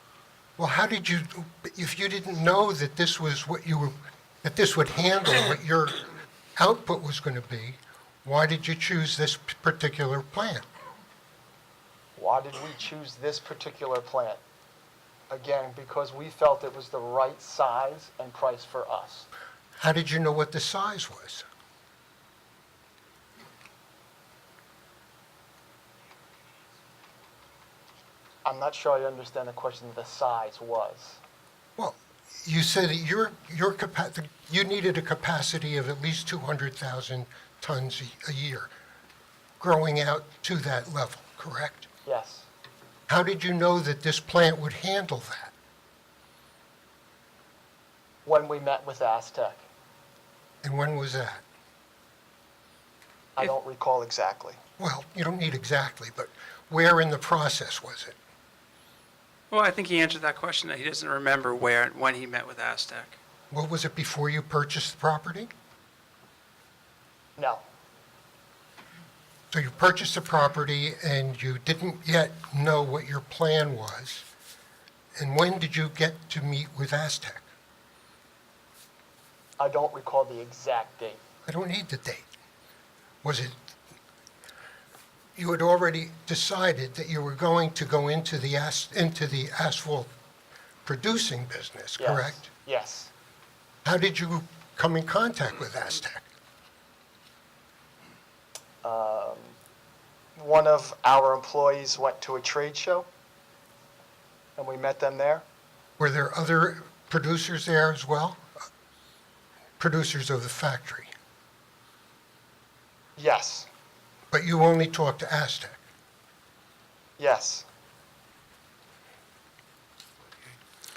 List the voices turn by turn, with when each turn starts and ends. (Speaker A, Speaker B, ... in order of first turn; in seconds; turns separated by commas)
Speaker A: 0.6-10.7, Speaker B: 12.2-14.4, Speaker B: 15.3-19.3, Speaker A: 19.8-21.4, Speaker B: 28.4-31.2, Speaker A: 31.8-38.7, Speaker A: 39.6-41.9, Speaker B: 42.1-42.5, Speaker A: 43.1-45.5, Speaker B: 48.2-49.7, Speaker A: 50.6-51.4, Speaker B: 53.4-54.6, Speaker A: 54.8-58.2, Speaker C: 59.5-63.2, Speaker A: 63.5-65.5, Speaker B: 67.4-67.6, Speaker A: 69.5-74.3, Speaker A: 75.2-77.5, Speaker B: 79.6-81.2, Speaker A: 81.5-82.3, Speaker A: 83.2-83.6, Speaker A: 85.4-90.1, Speaker A: 90.9-92.5, Speaker B: 92.0-93.1, Speaker A: 93.8-96.3, Speaker B: 98.8-99.6, Speaker B: 100.4-103.1, Speaker B: 104.6-105.5, Speaker A: 106.0-108.4, Speaker A: 109.8-111.1, Speaker B: 113.2-113.7, Speaker A: 114.3-115.8, Speaker B: 117.2-117.7